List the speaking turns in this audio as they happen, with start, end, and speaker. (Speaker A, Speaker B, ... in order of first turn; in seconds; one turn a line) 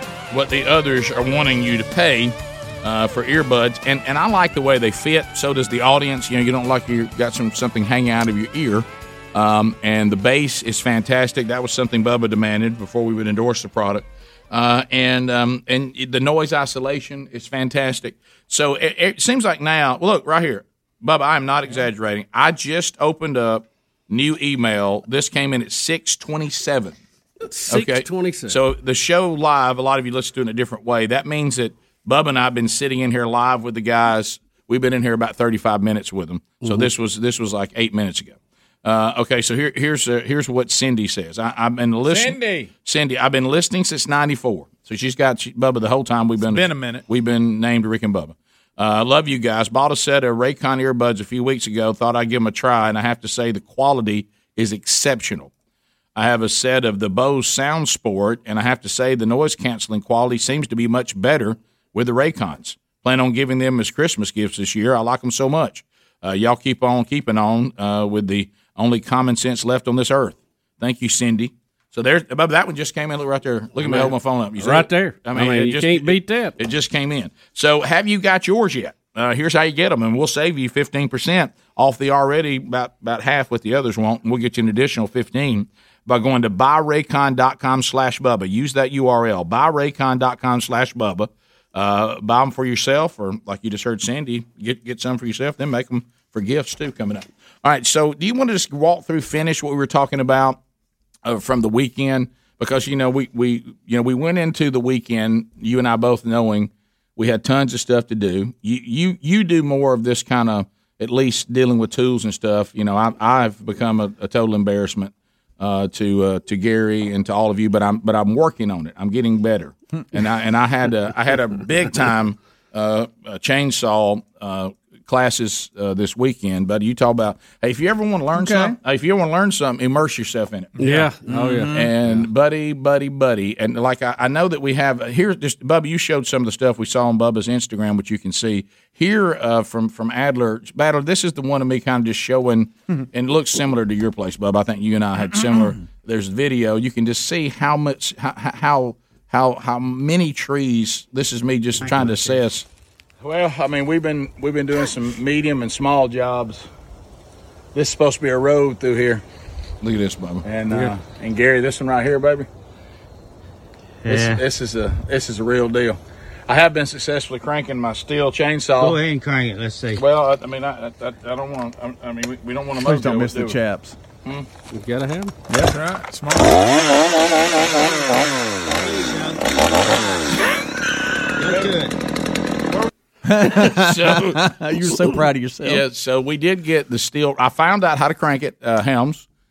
Speaker A: 0.3-27.0
Speaker B: 27.4-28.6
Speaker A: 27.7-55.5
Speaker B: 36.6-36.9
Speaker C: 42.0-42.7
Speaker C: 46.4-47.0
Speaker A: 56.1-100.6
Speaker B: 73.8-76.6
Speaker A: 101.2-131.0
Speaker D: 128.3-128.8
Speaker B: 130.8-131.9
Speaker D: 131.3-131.9
Speaker A: 131.7-152.7
Speaker A: 153.2-156.7
Speaker A: 157.7-159.2
Speaker A: 159.8-162.5
Speaker E: 164.1-164.4
Speaker A: 164.1-169.0
Speaker E: 168.8-170.0
Speaker A: 169.9-173.6
Speaker D: 172.8-174.0
Speaker B: 174.7-175.3
Speaker C: 175.5-176.7
Speaker E: 178.7-179.6
Speaker E: 181.4-181.9
Speaker D: 183.2-185.8
Speaker A: 183.6-184.5
Speaker A: 185.6-189.2